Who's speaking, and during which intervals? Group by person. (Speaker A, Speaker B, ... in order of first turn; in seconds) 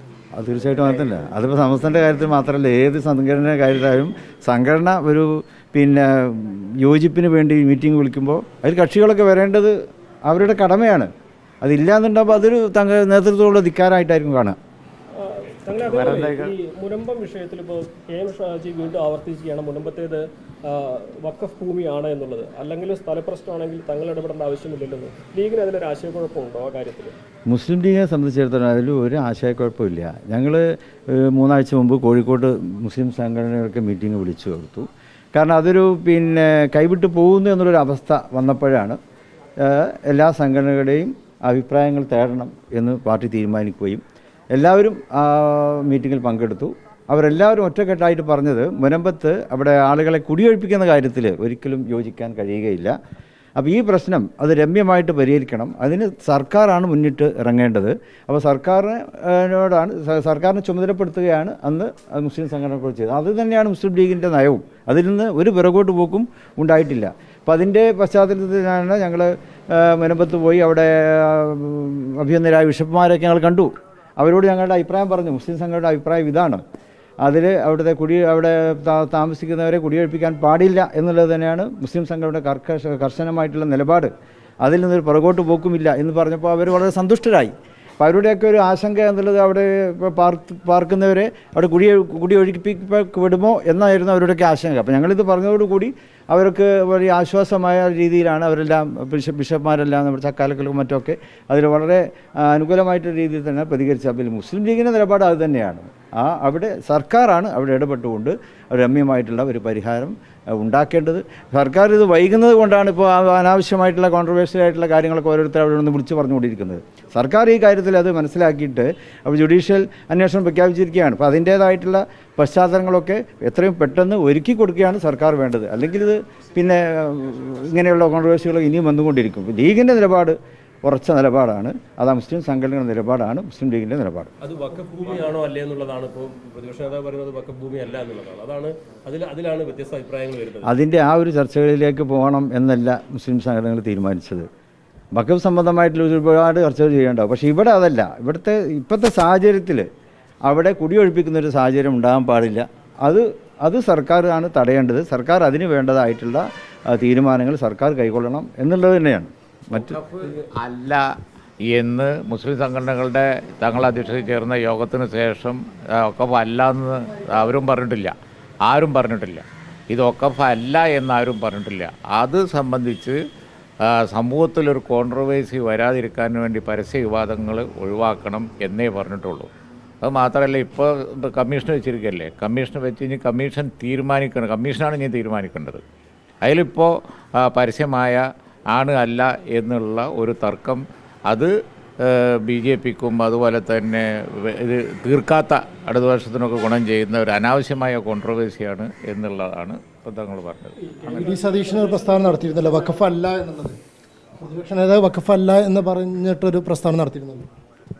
Speaker A: 0.4-9.7, 10.3-11.1, 11.6-14.6, 15.7-16.5, 27.5-39.0, 39.6-44.0, 44.5-52.9, 53.6-76.6, 77.2-84.1, 84.6-134.3, 140.6-144.5, 145.1-149.9, 150.4-160.0
Speaker B: 15.2-27.1, 200.9-202.9
Speaker C: 134.4-140.7, 160.2-160.5
Speaker D: 159.7-173.2, 173.8-179.5, 180.0-185.8, 186.4-201.4
Speaker E: 201.1-203.8, 204.4-207.5